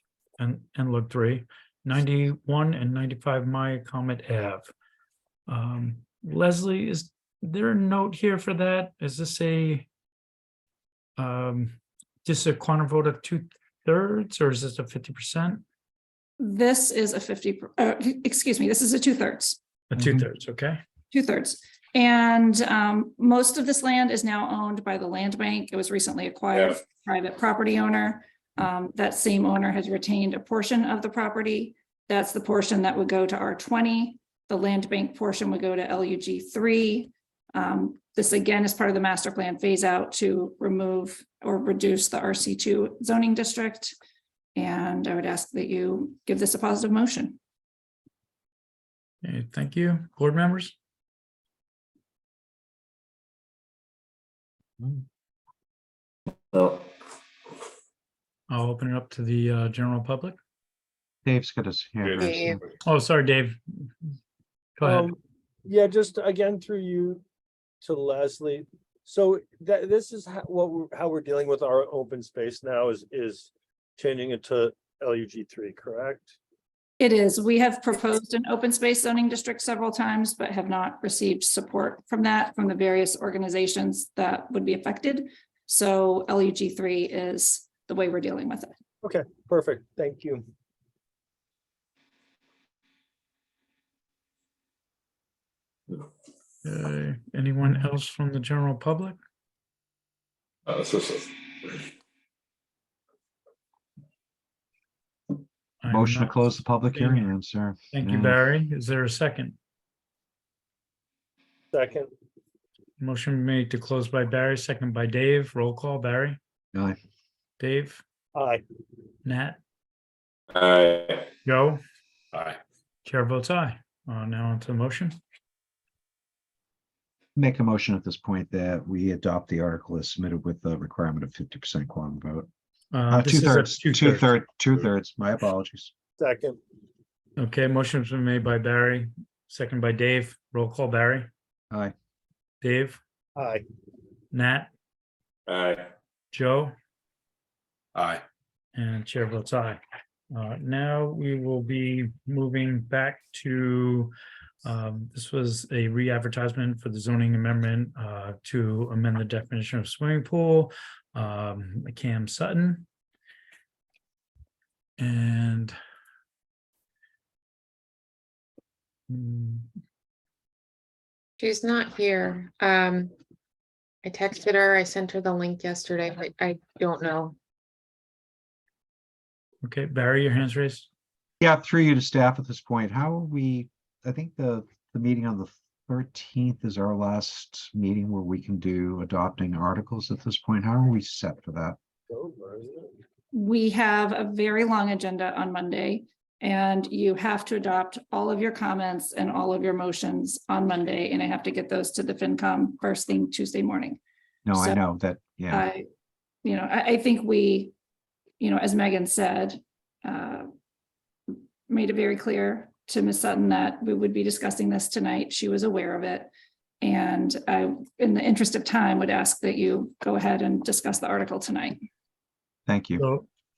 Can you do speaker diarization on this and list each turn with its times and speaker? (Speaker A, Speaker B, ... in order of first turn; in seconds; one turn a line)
Speaker A: 0.4-4.7
Speaker A: 5.5-9.9
Speaker A: 11.2-15.6
Speaker B: 16.4-19.6
Speaker A: 19.9-20.8
Speaker C: 20.0-20.2
Speaker B: 21.1-44.0
Speaker B: 44.5-47.4
Speaker A: 49.2-50.8
Speaker D: 56.5-56.8
Speaker A: 58.5-60.4
Speaker C: 61.2-62.6
Speaker D: 62.0-62.7
Speaker E: 62.2-62.6
Speaker A: 62.9-63.6
Speaker A: 64.8-65.1
Speaker F: 64.8-67.2
Speaker F: 67.8-76.3
Speaker B: 77.0-88.7
Speaker F: 89.0-90.4
Speaker A: 96.6-99.2
Speaker D: 100.7-101.8
Speaker A: 105.8-107.3
Speaker C: 105.9-108.4
Speaker A: 107.9-109.5
Speaker F: 111.7-112.1
Speaker A: 113.0-116.4
Speaker A: 117.6-118.0
Speaker F: 118.3-118.6
Speaker A: 119.2-119.6
Speaker D: 120.5-121.3
Speaker A: 121.4-121.8
Speaker D: 122.3-122.6
Speaker A: 123.0-125.2
Speaker C: 127.3-132.5
Speaker A: 132.9-134.3
Speaker C: 133.1-135.9
Speaker F: 136.2-136.6
Speaker A: 137.4-141.3
Speaker A: 142.6-143.0
Speaker F: 143.4-143.7
Speaker A: 144.3-144.7
Speaker D: 145.5-145.9
Speaker A: 146.3-146.7
Speaker D: 147.9-148.2
Speaker A: 148.8-149.8
Speaker A: 150.3-154.1
Speaker A: 154.7-162.8
Speaker A: 165.0-165.8
Speaker A: 169.1-169.7
Speaker E: 171.4-173.1
Speaker E: 174.0-177.3
Speaker A: 179.6-180.9
Speaker C: 181.4-191.8
Speaker F: 192.1-192.9
Speaker B: 193.3-204.0
Speaker C: 204.5-205.7
Speaker B: 204.6-204.8
Speaker B: 205.5-205.9
Speaker B: 206.4-207.7
Speaker B: 208.4-210.5
Speaker B: 211.3-221.8
Speaker C: 222.7-223.1
Speaker A: 223.0-223.3